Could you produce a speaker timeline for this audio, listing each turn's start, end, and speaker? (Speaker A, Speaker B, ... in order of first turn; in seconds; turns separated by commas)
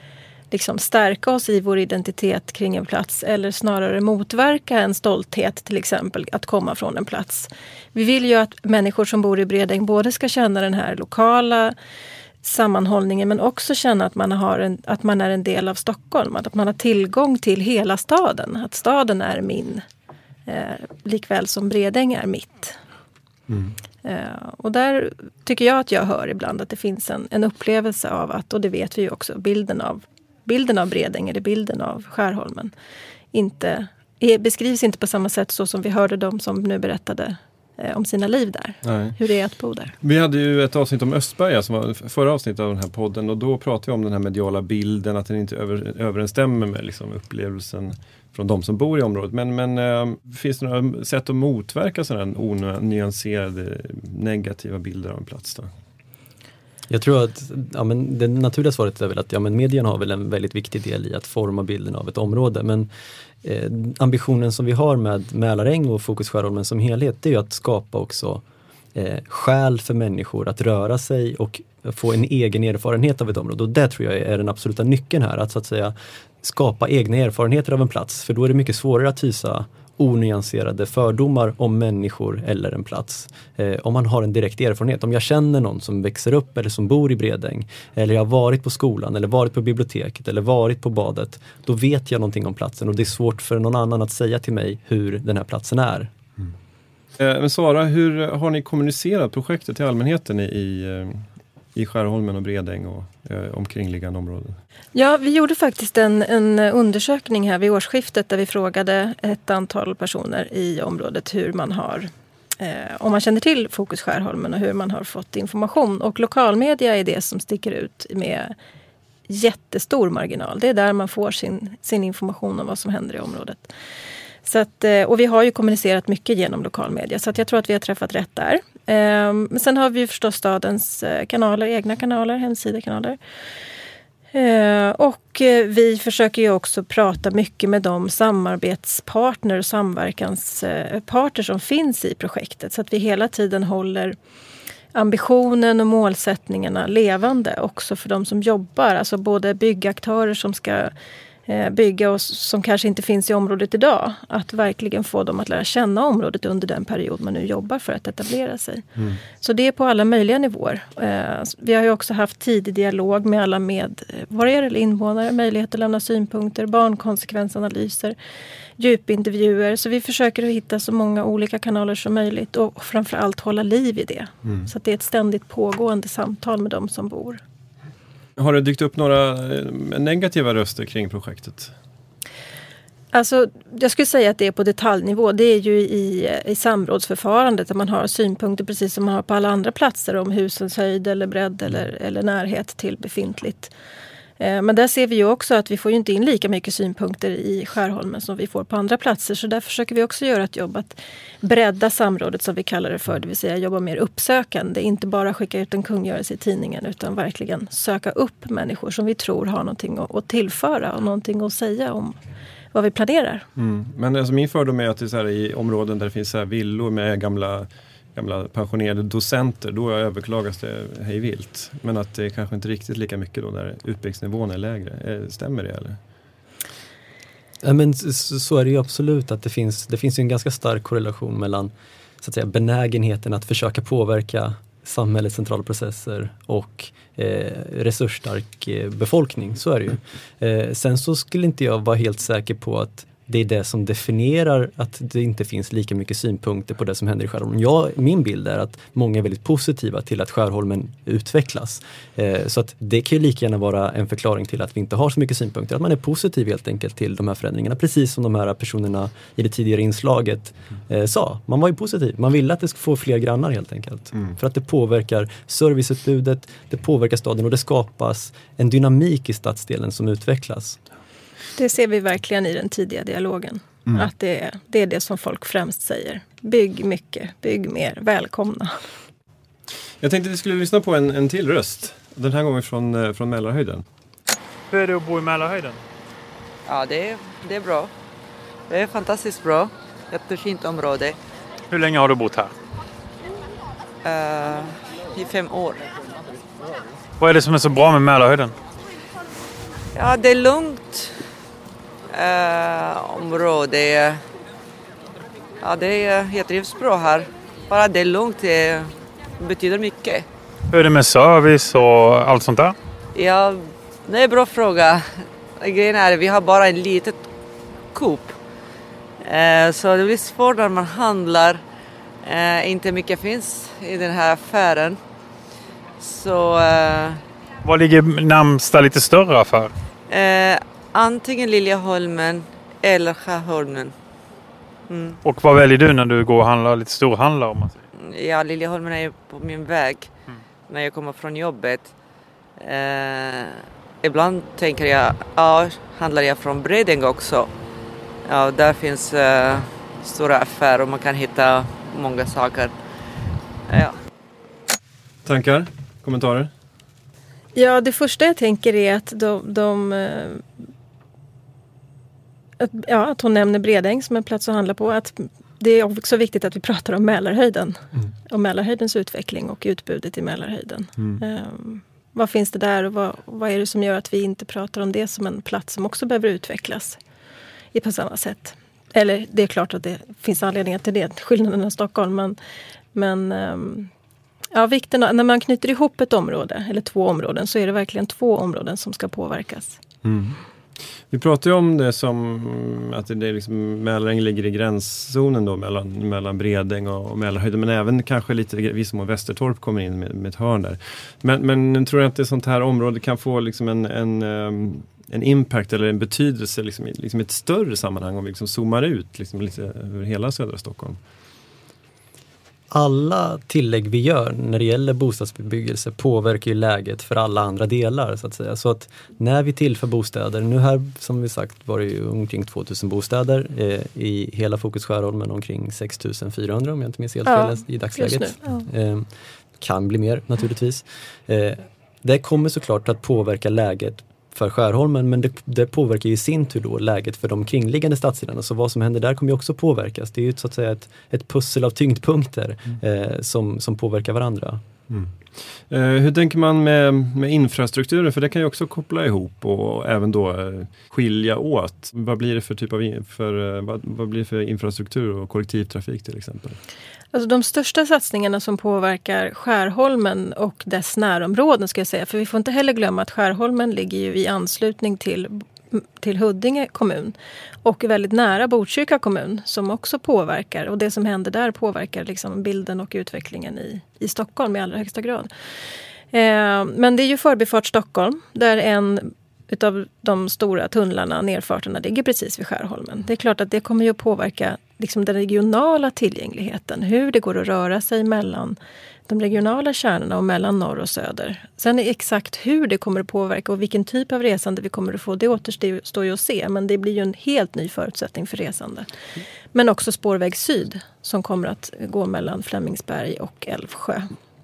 Speaker A: 0.5-11.7, Speaker A: 12.4-19.8, Speaker A: 20.5-22.8, Speaker B: 23.5-23.7, Speaker A: 24.0-32.7, Speaker A: 33.3-39.9, Speaker B: 38.8-39.2, Speaker B: 40.0-55.7, Speaker C: 56.9-62.9, Speaker C: 63.4-68.4, Speaker C: 68.9-96.1, Speaker B: 97.2-101.2, Speaker B: 101.7-104.6, Speaker A: 104.9-118.5, Speaker A: 119.3-123.7, Speaker A: 124.4-133.2, Speaker A: 134.3-144.2, Speaker A: 144.9-150.9, Speaker A: 151.5-158.8, Speaker A: 159.4-168.1, Speaker A: 168.8-177.4, Speaker B: 178.4-181.7, Speaker A: 183.1-193.7, Speaker A: 194.4-212.2, Speaker A: 212.7-213.4, Speaker B: 213.6-226.0, Speaker C: 227.6-270.8, Speaker A: 271.6-278.7, Speaker B: 280.0-283.8, Speaker D: 284.7-285.8, Speaker E: 286.6-287.9, Speaker E: 288.7-291.2, Speaker D: 291.7-292.5, Speaker E: 294.0-295.9, Speaker D: 297.2-298.5, Speaker E: 299.9-301.1, Speaker E: 302.1-304.2, Speaker E: 305.6-310.3, Speaker D: 310.7-312.7, Speaker E: 313.1-317.3, Speaker E: 317.9-318.4, Speaker E: 319.2-321.6, Speaker E: 322.2-325.0, Speaker E: 326.0-327.2, Speaker D: 327.6-329.7, Speaker E: 330.1-333.9, Speaker E: 334.9-335.2, Speaker D: 335.2-337.8, Speaker E: 337.9-340.1, Speaker E: 340.7-341.9, Speaker E: 342.6-347.5, Speaker E: 348.2-352.7, Speaker E: 353.7-353.9, Speaker B: 355.2-356.5, Speaker A: 357.5-360.4, Speaker A: 362.6-377.0, Speaker A: 377.7-382.4, Speaker A: 382.9-383.9, Speaker A: 384.5-389.8, Speaker B: 390.0-390.4, Speaker B: 391.1-411.0, Speaker C: 412.7-444.6, Speaker A: 427.2-428.6, Speaker B: 444.9-445.1, Speaker B: 445.7-456.6, Speaker A: 457.1-475.3, Speaker A: 476.1-488.6, Speaker A: 489.1-498.9, Speaker A: 499.5-504.1